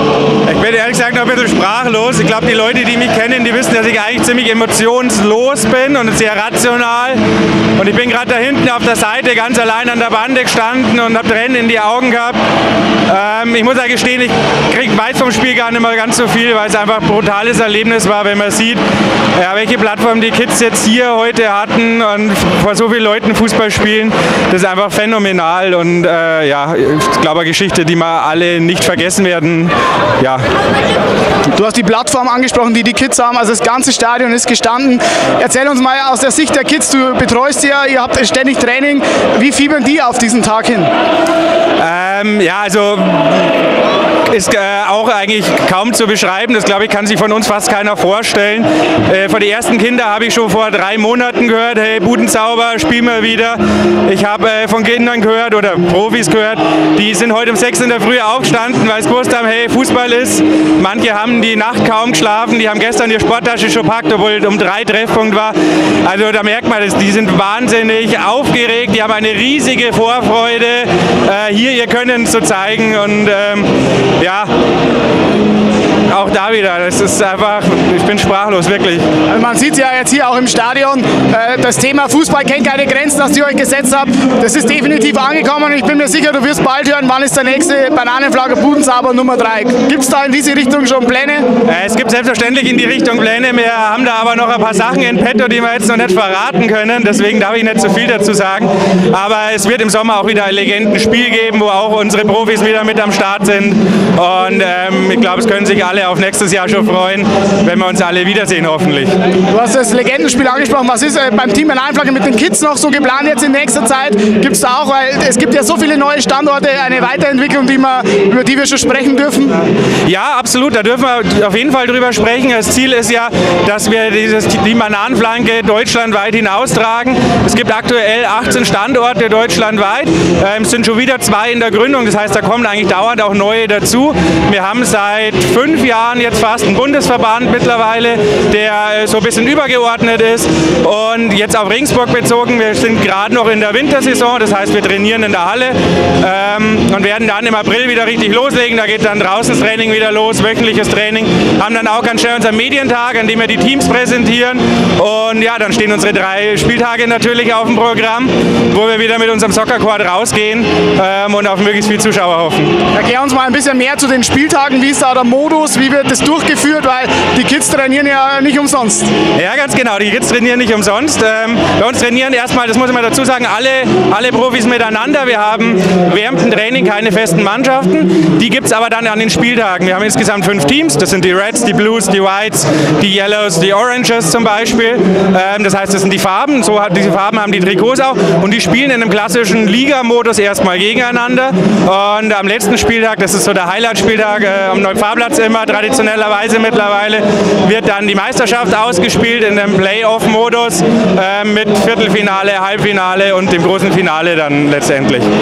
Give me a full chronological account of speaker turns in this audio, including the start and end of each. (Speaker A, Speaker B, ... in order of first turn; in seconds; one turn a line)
Speaker A: 0.4-7.2
Speaker A: 7.8-12.4
Speaker A: 13.1-18.8
Speaker A: 19.4-30.4
Speaker B: 31.5-40.9
Speaker A: 41.8-43.5
Speaker A: 44.3-74.5
Speaker A: 76.1-79.0
Speaker B: 79.2-91.5
Speaker A: 91.6-109.1
Speaker B: 109.5-119.6
Speaker A: 120.0-162.8
Speaker B: 162.9-169.1
Speaker A: 169.3-205.3